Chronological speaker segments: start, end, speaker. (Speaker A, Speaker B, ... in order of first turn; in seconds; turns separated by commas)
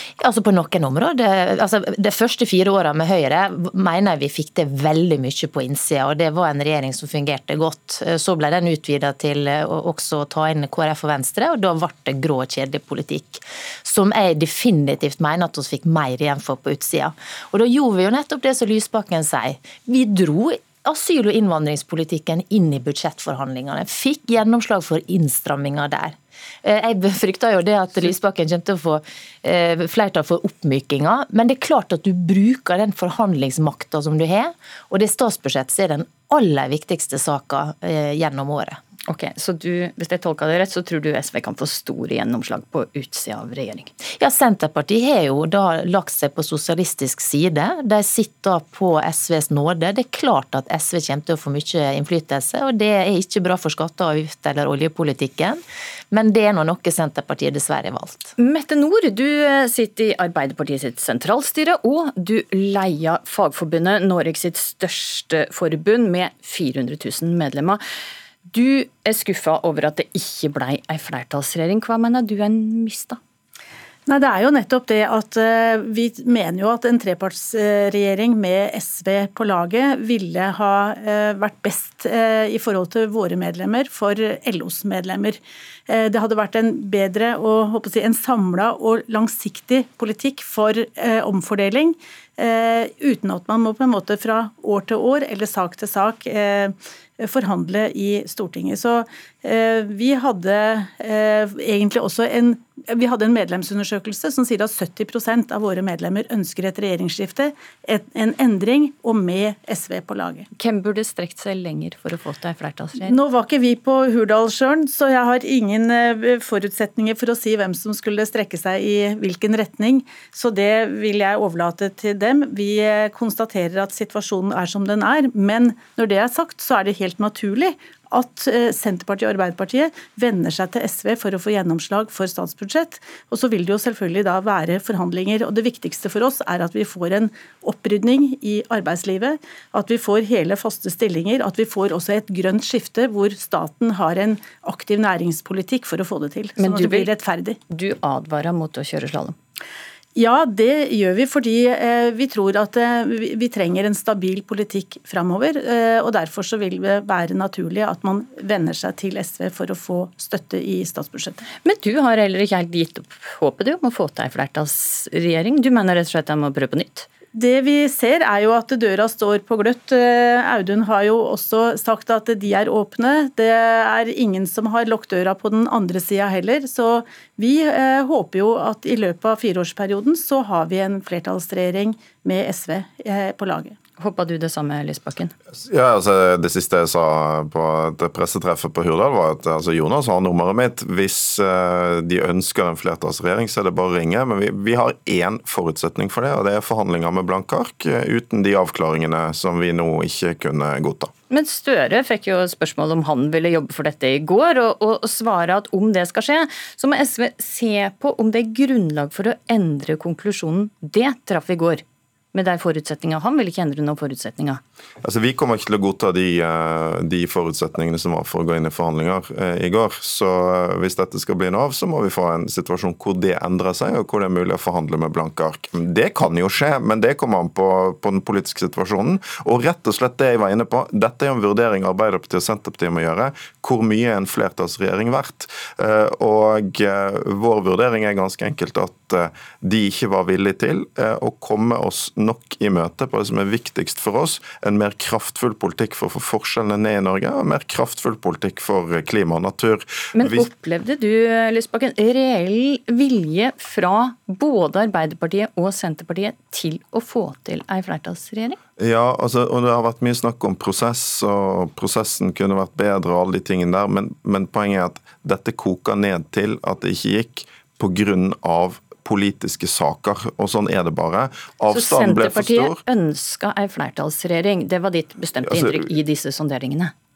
Speaker A: 0.2-38.8, Speaker B: 39.1-43.9, Speaker A: 44.2-55.6, Speaker A: 56.1-58.3, Speaker B: 58.4-67.8, Speaker B: 68.5-73.2, Speaker C: 74.1-110.5, Speaker B: 110.5-113.2, Speaker C: 113.0-147.6, Speaker B: 146.6-147.1, Speaker B: 147.7-149.3, Speaker C: 150.2-161.4, Speaker B: 161.6-167.1, Speaker C: 167.3-183.8, Speaker B: 184.0-185.3, Speaker D: 185.6-201.1, Speaker B: 201.3-211.8, Speaker B: 212.3-214.6, Speaker D: 215.0-250.5, Speaker B: 250.1-258.6, Speaker D: 258.8-272.8, Speaker B: 271.7-276.9, Speaker D: 275.5-275.9